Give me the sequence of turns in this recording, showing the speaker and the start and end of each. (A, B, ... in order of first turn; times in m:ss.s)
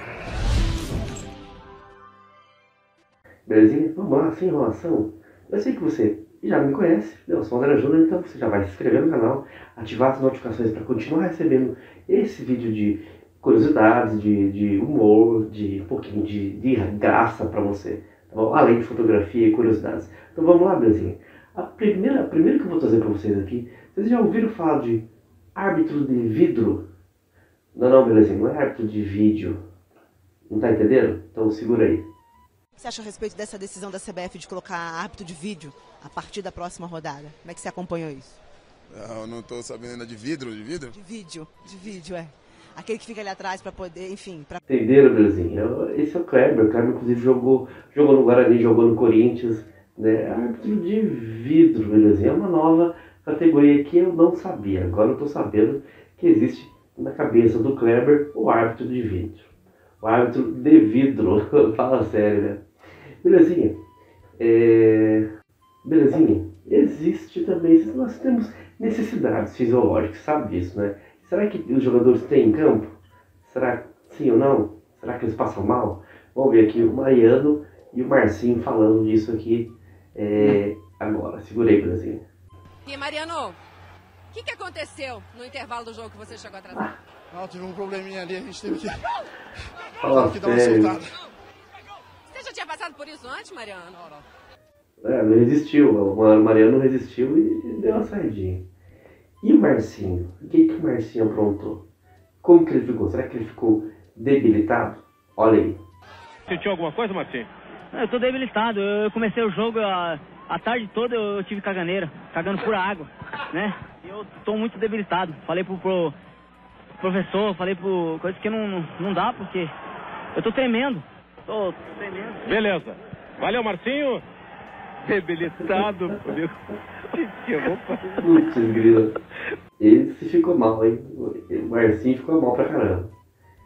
0:03.4-0:25.0 A
0:25.5-0:26.8 A
0:27.7-0:29.6 A
0:30.5-0:32.0 A
0:32.8-0:38.3 B
0:39.0-0:40.9 C
0:40.9-0:44.6 B
0:44.7-0:59.5 A
1:00.0-1:02.6 A
1:03.2-1:03.8 A
1:04.4-1:05.3 A
1:05.8-1:22.2 A
1:22.8-1:23.6 D
1:24.3-1:26.9 D
1:27.3-1:28.9 E
1:30.0-1:31.0 A
1:30.2-1:31.0 E
1:32.3-1:34.2 D
1:35.0-1:38.6 A
1:39.4-1:41.8 A
1:42.4-1:45.8 A
1:46.5-1:47.5 F
1:47.9-1:56.1 G
1:57.0-1:59.7 G
2:00.3-2:02.4 G
2:02.4-2:04.2 F
2:05.0-2:06.5 F
2:07.2-2:08.0 F
2:08.1-2:09.1 A
2:09.8-2:13.1 A